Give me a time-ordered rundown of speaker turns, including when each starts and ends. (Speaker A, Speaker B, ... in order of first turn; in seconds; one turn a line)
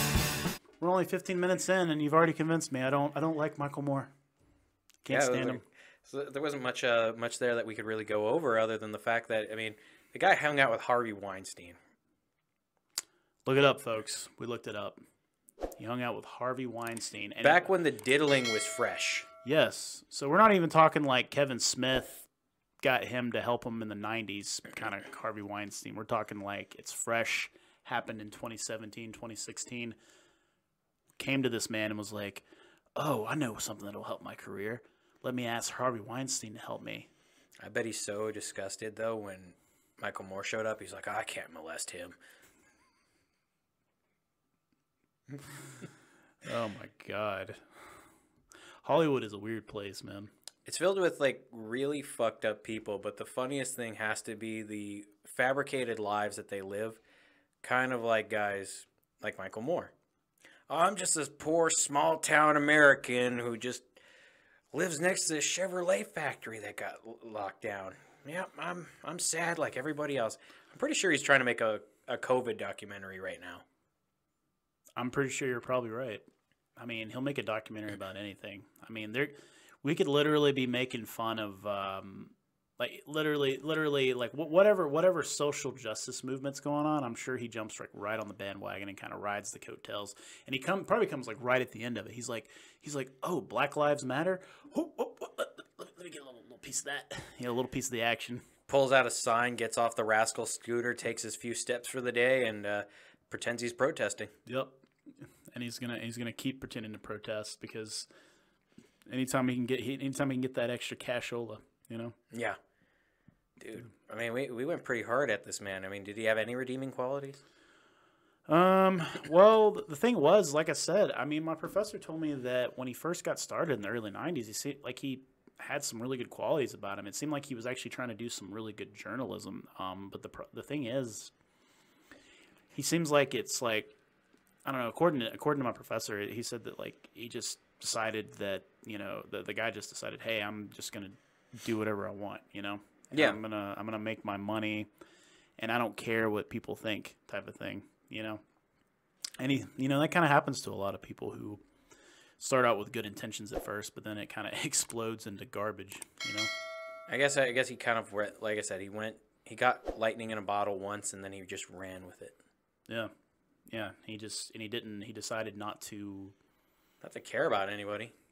Speaker A: 0.8-4.1
Speaker A: 5.0-5.6
Speaker B: 5.1-11.8
Speaker A: 13.4-15.0
Speaker A: 15.8-17.7
Speaker B: 17.4-19.3
Speaker A: 19.4-22.3
Speaker A: 22.8-29.9
Speaker A: 31.2-37.1
Speaker B: 37.6-42.2
Speaker A: 46.4-47.6
Speaker A: 48.8-50.3
Speaker B: 50.6-57.0
Speaker B: 57.6-59.9
Speaker B: 60.7-63.9
Speaker B: 64.7-73.6
Speaker A: 75.0-76.2
Speaker A: 76.8-98.5
Speaker B: 98.7-104.3
Speaker A: 104.5-104.8
Speaker A: 105.5-108.1
Speaker A: 109.1-112.1
Speaker B: 112.3-112.6
Speaker B: 113.6-117.4
Speaker A: 118.5-131.3
Speaker A: 132.7-133.9
Speaker A: 134.7-144.9
Speaker B: 143.1-143.4
Speaker A: 145.6-148.4
Speaker A: 149.4-151.6
Speaker A: 152.4-156.5
Speaker B: 157.1-162.4
Speaker A: 163.7-166.3
Speaker B: 167.0-168.1